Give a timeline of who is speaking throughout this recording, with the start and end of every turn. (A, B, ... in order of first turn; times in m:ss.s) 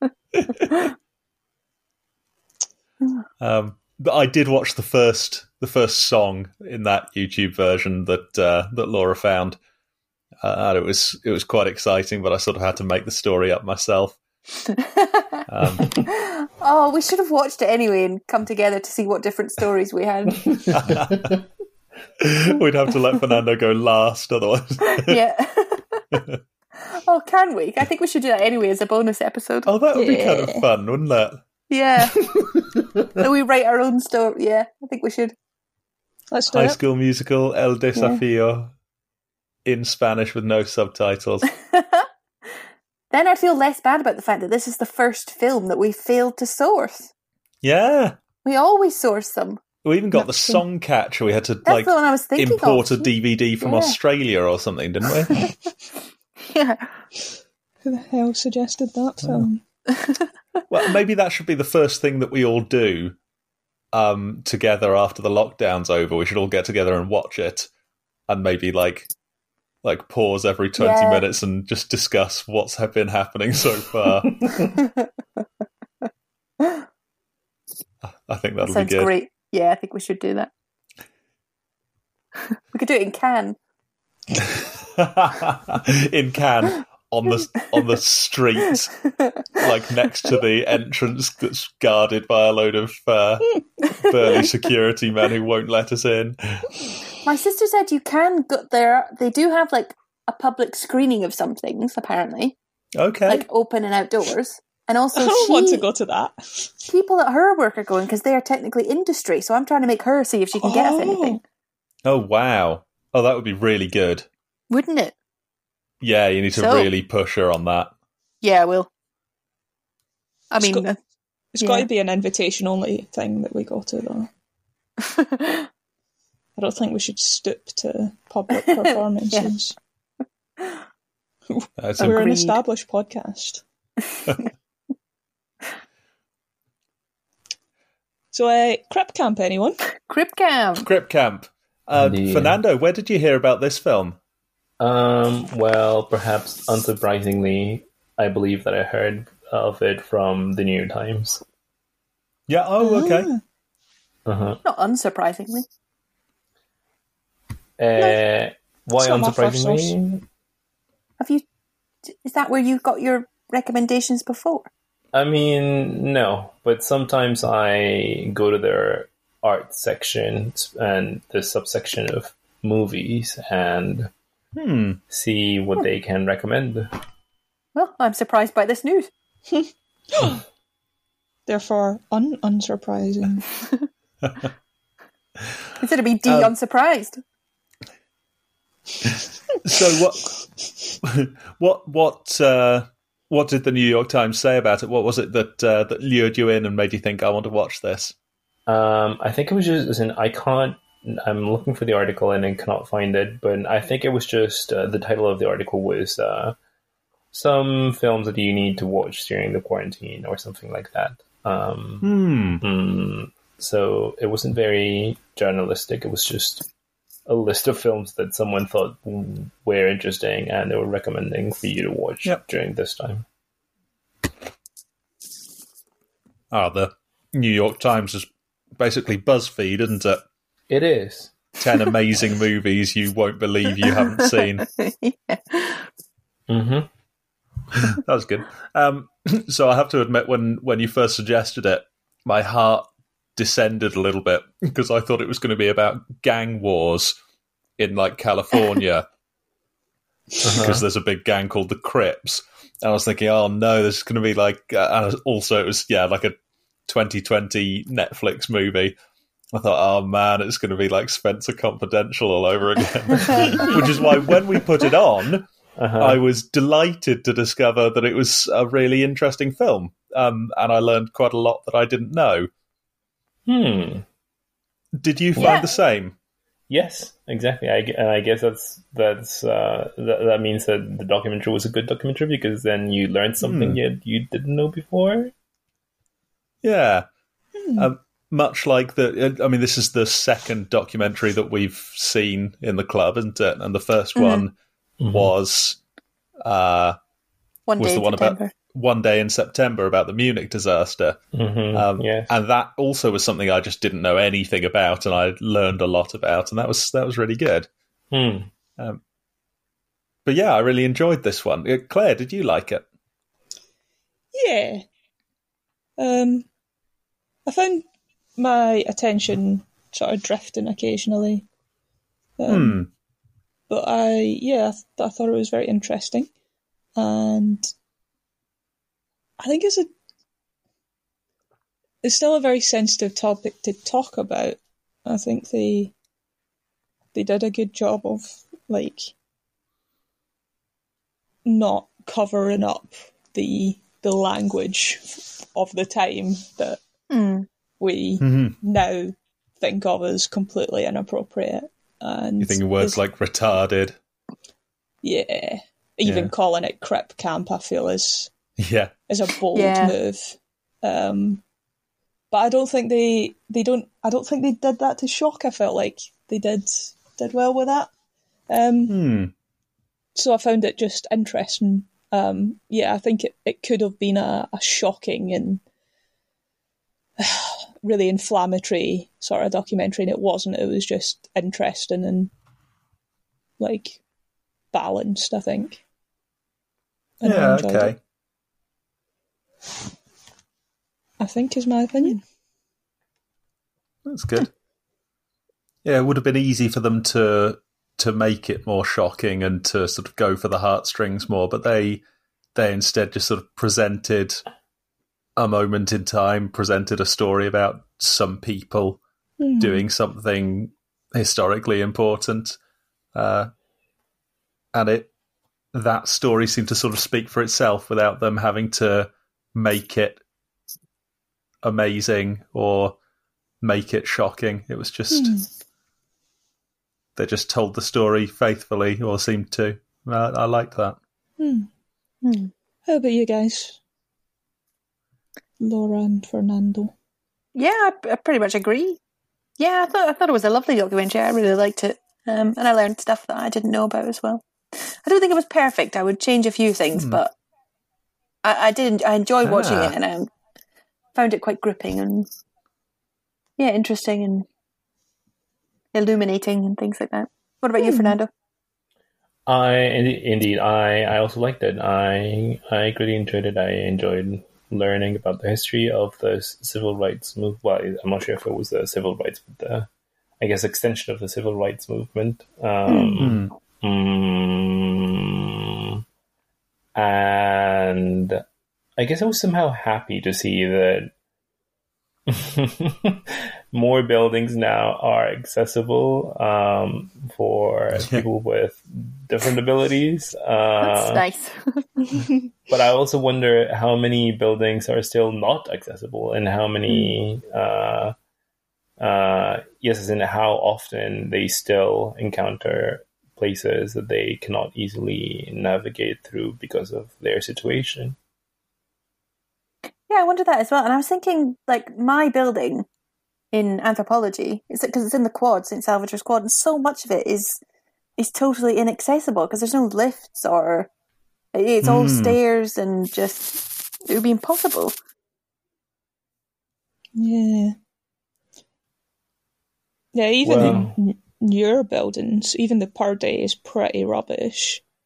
0:00.4-0:00.6 A
0:03.4-0:09.6 A
0:10.4-0:14.2 A
0:14.7-0:15.4 B
0:15.5-0:16.0 A
0:16.1-0:20.8 B
0:20.7-0:21.3 A
0:22.2-0:25.2 A
0:24.9-0:26.0 B
0:26.1-0:26.4 A
0:26.8-0:29.7 B
0:29.6-0:31.4 A
0:29.9-0:30.6 C
0:31.7-0:32.2 B
0:33.2-0:35.3 B
0:36.3-0:36.8 C
0:36.5-0:38.7 A
0:37.9-0:38.2 B
0:39.6-0:41.5 A
0:41.7-0:42.0 B
0:43.1-0:47.1 B
0:47.6-0:48.2 A
0:48.4-0:49.6 B
0:49.8-0:55.5 A
0:50.2-0:50.6 C
0:51.6-0:54.0 B
0:56.4-0:57.0 B
0:57.8-0:59.6 C
1:00.0-1:00.2 B
1:00.7-1:03.2 A
1:03.9-1:07.7 A
1:08.3-1:09.1 A
1:09.8-1:14.4 A
1:10.8-1:11.2 B
1:18.0-1:19.1 A
1:18.6-1:20.5 B
1:22.7-1:23.6 B
1:24.4-1:28.9 A
1:29.5-1:36.8 A
1:37.2-1:42.6 B
1:43.0-1:43.4 A
1:43.3-1:45.8 B
1:45.2-1:46.7 C
1:46.9-1:51.4 B
1:50.6-1:51.4 C
1:52.0-1:54.3 A
1:54.7-1:55.1 B
1:56.0-1:57.9 A
1:56.5-1:56.9 B
1:58.4-1:58.9 B
2:00.5-2:01.0 B
2:00.6-2:00.8 C
2:01.5-2:04.3 C
2:01.6-2:01.8 B
2:05.0-2:05.7 B
2:06.6-2:09.8 C
2:08.6-2:09.5 B
2:11.5-2:13.6 C
2:11.8-2:12.3 A
2:12.0-2:12.6 B
2:18.3-2:19.8 C
2:20.0-2:20.9 B
2:20.8-2:24.2 A
2:22.0-2:22.6 D
2:24.8-2:31.4 D
2:32.5-2:33.3 A
2:32.8-2:33.4 C
2:34.2-2:34.6 D
2:34.6-2:35.6 B
2:37.8-2:40.2 D
2:39.0-2:39.9 C
2:42.1-2:44.7 B
2:45.1-2:54.1 D
2:54.5-2:55.0 A
2:55.1-2:56.9 D
2:57.8-2:59.1 B
2:59.5-3:00.4 C
3:01.5-3:03.5 C
3:04.2-3:04.5 A
3:05.8-3:07.2 B
3:06.3-3:06.5 A
3:09.0-3:10.3 A
3:11.0-3:18.1 A
3:18.7-3:26.6 D
3:27.3-3:36.6 D
3:32.0-3:32.6 A
3:37.3-3:43.2 D
3:46.5-3:50.2 A
3:50.7-3:51.3 D
3:51.6-3:54.6 A
3:54.6-3:55.9 B
3:56.5-3:56.9 D
3:57.9-4:07.2 A
4:07.8-4:09.0 A
4:10.4-4:10.8 D
4:10.5-4:19.0 A
4:19.5-4:32.5 A
4:25.8-4:26.2 D
4:33.5-4:34.0 D
4:35.0-4:36.2 A
4:35.4-4:35.6 D
4:35.4-4:35.8 B
4:36.7-4:45.3 D
4:43.4-4:43.8 A
4:46.6-4:47.1 A
4:47.6-4:47.9 C
4:47.8-4:54.5 A
4:54.2-4:54.5 B
4:55.0-4:55.3 D
4:55.1-4:55.8 A
4:56.4-4:57.0 A
4:57.7-4:58.5 B
4:57.8-5:01.2 A
5:01.3-5:02.3 D
5:01.7-5:07.7 A
5:08.1-5:08.5 D
5:10.2-5:12.8 A
5:14.3-5:14.8 C
5:16.0-5:16.5 C
5:17.5-5:17.9 C
5:18.4-5:21.5 C
5:22.4-5:22.8 C
5:22.5-5:22.9 A
5:23.7-5:26.3 C
5:27.0-5:27.7 C
5:29.4-5:29.9 C
5:32.0-5:35.9 C
5:37.1-5:39.1 C
5:41.4-5:46.8 C
5:47.1-5:47.5 B
5:47.8-5:53.0 C
5:48.2-5:48.6 A
5:52.4-5:54.0 A
5:55.0-5:58.3 C
5:56.0-5:56.3 A
5:58.6-5:58.9 A
5:59.1-6:01.4 C
5:59.5-5:59.9 B
6:02.3-6:07.9 C
6:08.5-6:08.9 C
6:08.9-6:09.3 A
6:10.1-6:15.6 C
6:17.2-6:22.3 C
6:23.6-6:24.0 C
6:24.7-6:25.8 C
6:27.2-6:27.9 C
6:27.2-6:28.0 A
6:31.2-6:32.2 C
6:34.0-6:34.5 A
6:35.8-6:42.0 A
6:42.5-6:44.4 A
6:45.4-6:49.0 A
6:49.4-6:49.8 C
6:49.6-6:52.6 A
6:53.1-6:53.5 A
6:54.7-6:55.1 A
6:55.7-7:00.2 A
7:01.6-7:03.0 A
7:03.6-7:05.4 A
7:05.1-7:05.5 C
7:07.2-7:11.0 A
7:11.4-7:11.7 C
7:12.2-7:12.5 B
7:12.9-7:13.8 C
7:15.6-7:16.9 C
7:17.6-7:19.0 B
7:19.6-7:27.3 B
7:26.9-7:27.2 A
7:28.4-7:30.3 B
7:29.4-7:29.9 A
7:31.1-7:32.3 B
7:33.6-7:34.5 B
7:35.9-7:38.3 B
7:37.8-7:38.2 C
7:39.5-7:49.9 D
7:50.4-7:56.0 D
7:52.9-7:53.2 B
7:53.2-7:53.5 A
7:57.0-7:58.4 D
7:59.0-8:01.1 D
8:02.3-8:11.2 D
8:07.9-8:08.2 A
8:10.8-8:11.9 B
8:12.7-8:18.1 D
8:19.0-8:28.2 D
8:30.1-8:32.9 B
8:33.5-8:37.6 B
8:38.2-8:40.9 B
8:41.5-8:44.9 B
8:41.8-8:42.4 A
8:47.2-8:47.8 C
8:50.1-8:54.8 C
8:50.4-8:51.0 D